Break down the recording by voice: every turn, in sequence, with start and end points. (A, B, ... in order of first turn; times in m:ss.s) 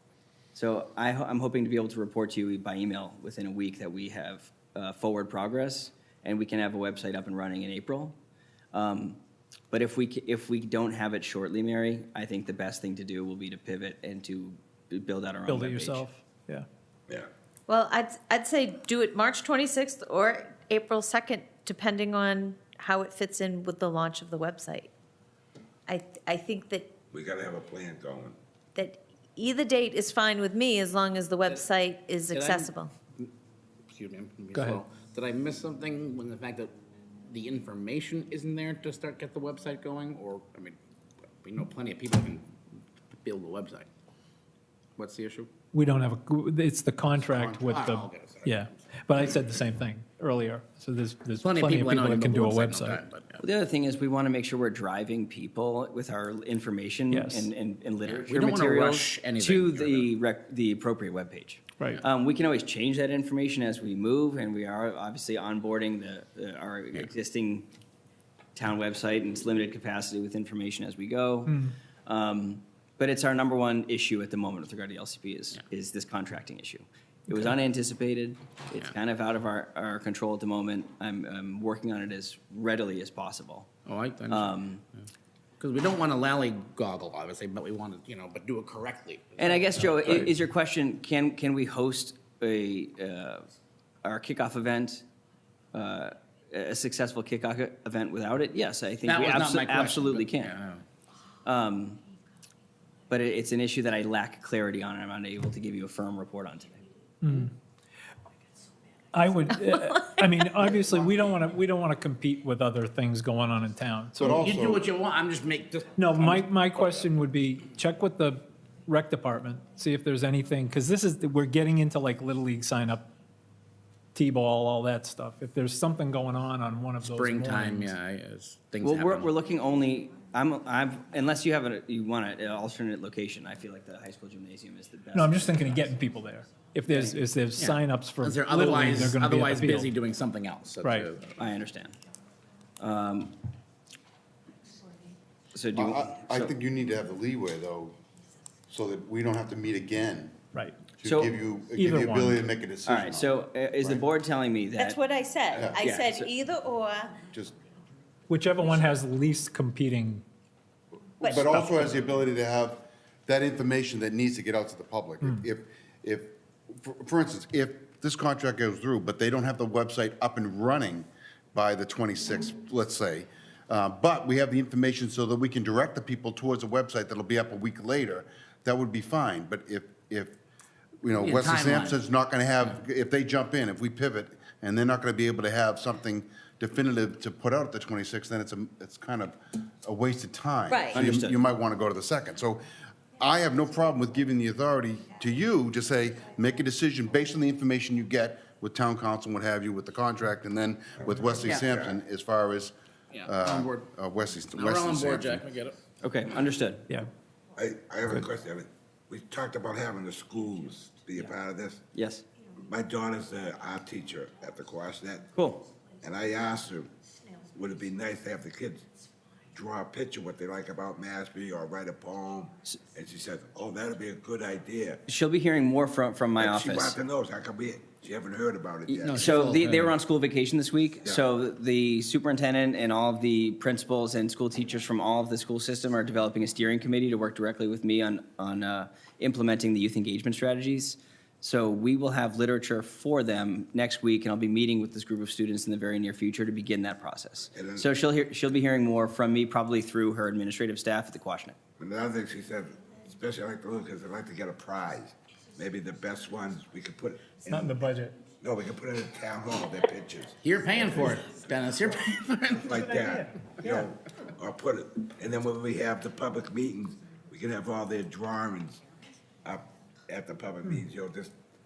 0:00.5-0:08.2 A
0:08.7-0:09.2 A
0:09.7-0:16.0 A
0:15.5-0:16.6 B
0:17.7-0:24.9 C
0:25.9-0:26.9 C
0:27.1-0:28.4 D
0:28.7-0:32.9 C
0:32.3-0:33.3 E
0:33.9-0:36.7 E
0:34.5-0:34.8 B
0:37.3-0:40.8 E
0:41.4-0:42.5 E
0:43.1-0:43.9 E
0:45.0-0:45.5 E
0:45.7-0:53.0 B
0:47.2-0:48.9 E
0:51.4-0:53.4 E
0:53.4-1:07.7 A
0:57.1-0:57.5 B
0:58.0-1:00.1 E
1:08.6-1:23.7 A
1:11.5-1:11.7 B
1:23.8-1:24.6 E
1:24.3-1:24.8 A
1:25.6-1:30.3 E
1:29.4-1:33.5 A
1:34.0-1:35.0 A
1:35.7-1:40.5 A
1:39.0-1:40.8 E
1:41.4-1:42.0 A
1:43.1-1:46.8 A
1:47.2-1:47.5 B
1:49.1-1:54.5 B
1:54.2-1:54.9 F
1:54.2-1:57.1 E
1:56.0-2:03.1 B
2:04.1-2:08.0 B
2:07.0-2:09.3 E
2:08.8-2:16.0 A
2:15.1-2:20.0 B
2:16.9-2:17.2 A
2:17.6-2:21.3 E
2:20.8-2:21.1 B
2:21.3-2:22.0 A
2:22.8-2:23.4 A
2:25.5-2:26.5 A
2:25.7-2:27.9 F
2:28.7-2:30.4 F
2:30.5-2:30.8 B
2:30.9-2:34.0 F
2:31.0-2:31.4 A
2:31.8-2:32.5 B
2:32.8-2:35.0 A
2:34.8-2:37.2 C
2:35.5-2:35.8 F
2:35.6-2:36.3 A
2:38.3-2:40.2 B
2:41.2-3:00.4 F
2:41.2-2:41.6 C
2:41.4-2:42.0 B
3:01.0-3:22.7 F
3:01.2-3:02.0 E
3:10.7-3:11.0 C
3:10.9-3:11.4 A
3:21.0-3:22.0 D
3:23.1-3:23.9 E
3:23.2-3:25.5 F
3:24.5-3:25.8 E
3:26.0-3:26.9 A
3:27.6-3:31.8 D
3:31.9-3:32.2 A
3:32.7-3:35.3 D
3:35.3-3:35.6 A
3:36.0-3:36.9 D
3:37.5-3:38.8 D
3:39.5-3:45.0 D
3:45.0-3:47.0 A
3:46.4-3:49.4 D
3:48.8-4:11.6 A
3:49.0-3:50.0 E
4:07.5-4:07.9 D
4:11.8-4:17.8 D
4:17.5-4:18.2 B
4:18.4-4:21.4 D
4:20.4-4:22.8 E
4:22.6-4:28.8 D
4:22.7-4:23.9 B
4:29.4-4:31.3 D